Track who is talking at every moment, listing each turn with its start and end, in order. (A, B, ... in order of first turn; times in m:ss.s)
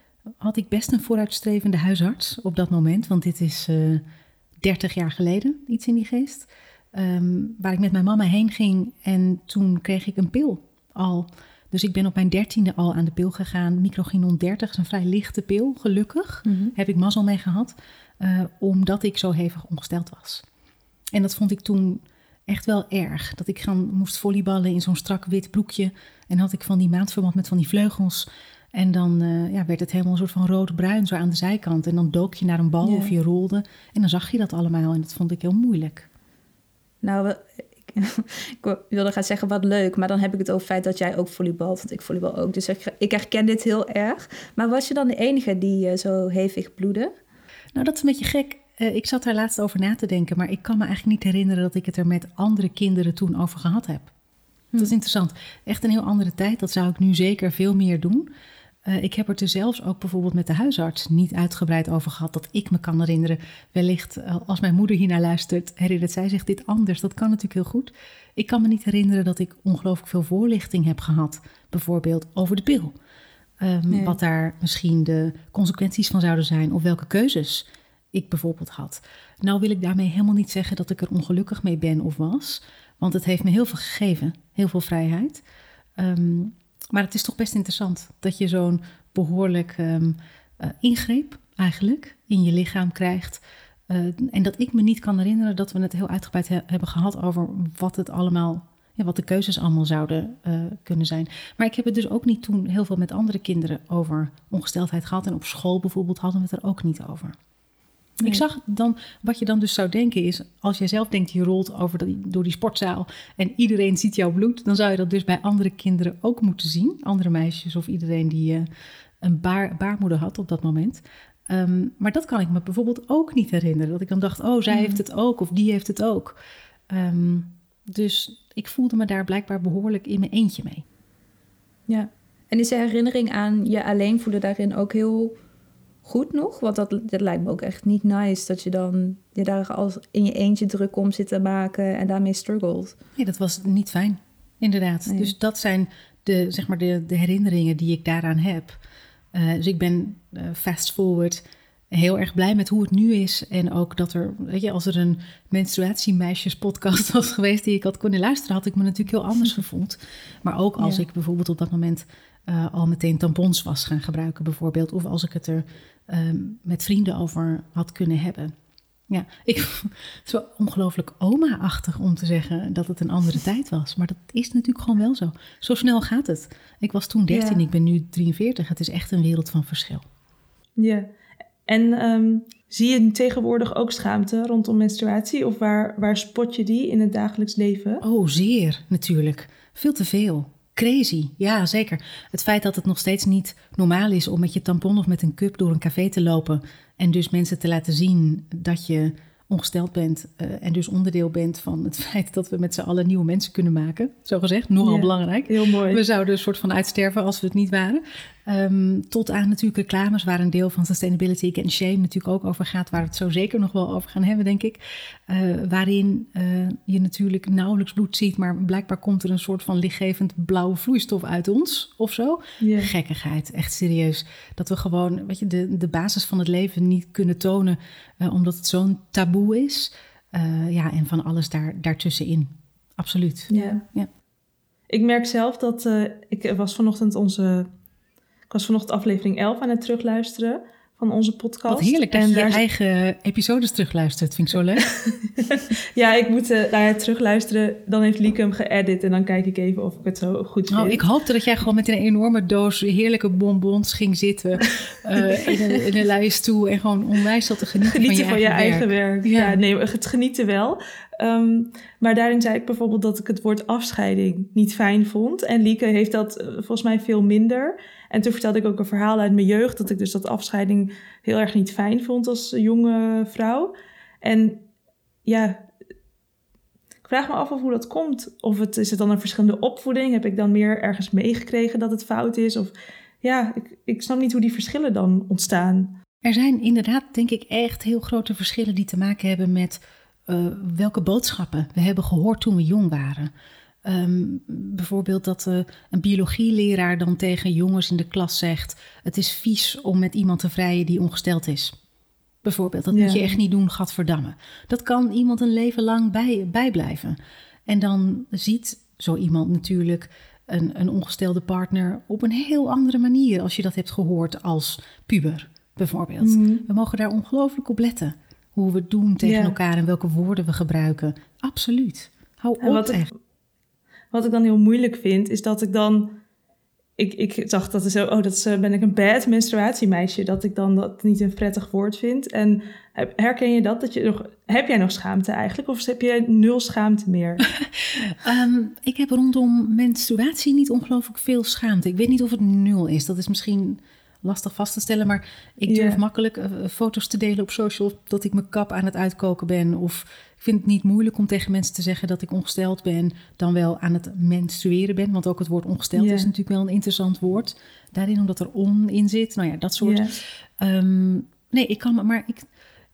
0:00.4-0:04.0 A
0:04.6-0:20.4 A
0:16.4-0:16.7 B
0:21.1-0:36.0 A
0:32.8-0:33.1 B
0:37.0-0:47.1 B
0:47.7-0:54.1 A
0:54.8-0:58.3 A
0:58.8-1:12.9 A
1:13.6-1:25.4 A
1:13.9-1:14.2 B
1:26.0-1:47.4 A
1:48.2-1:58.7 A
1:59.2-2:06.4 A
2:04.7-2:05.0 B
2:06.9-2:10.8 A
2:11.9-2:15.4 B
2:16.0-2:23.0 B
2:23.2-2:28.8 A
2:25.1-2:25.3 B
2:29.3-2:48.5 A
2:40.8-2:41.0 B
2:49.1-3:00.0 A
2:57.3-2:57.6 B
3:00.8-3:01.1 C
3:01.6-3:08.0 C
3:08.0-3:54.1 A
3:24.8-3:26.0 C
3:42.6-3:42.9 C
3:53.5-3:53.8 B
3:53.5-3:53.8 C
3:54.9-3:57.7 C
3:58.5-4:02.6 C
4:01.7-4:04.8 A
4:05.0-4:11.0 C
4:10.7-4:19.6 A
4:17.8-4:34.7 C
4:35.2-4:35.7 C
4:37.0-4:45.9 C
4:46.2-4:53.3 A
4:53.8-5:01.7 A
5:02.4-5:23.1 A
5:02.9-5:03.4 C
5:16.2-5:16.6 C
5:19.2-5:19.6 C
5:22.6-5:23.1 C
5:24.1-5:26.2 C
5:27.0-5:37.4 C
5:37.5-6:02.5 A
5:45.7-5:46.0 C
5:55.9-5:56.3 C
5:59.8-6:00.1 C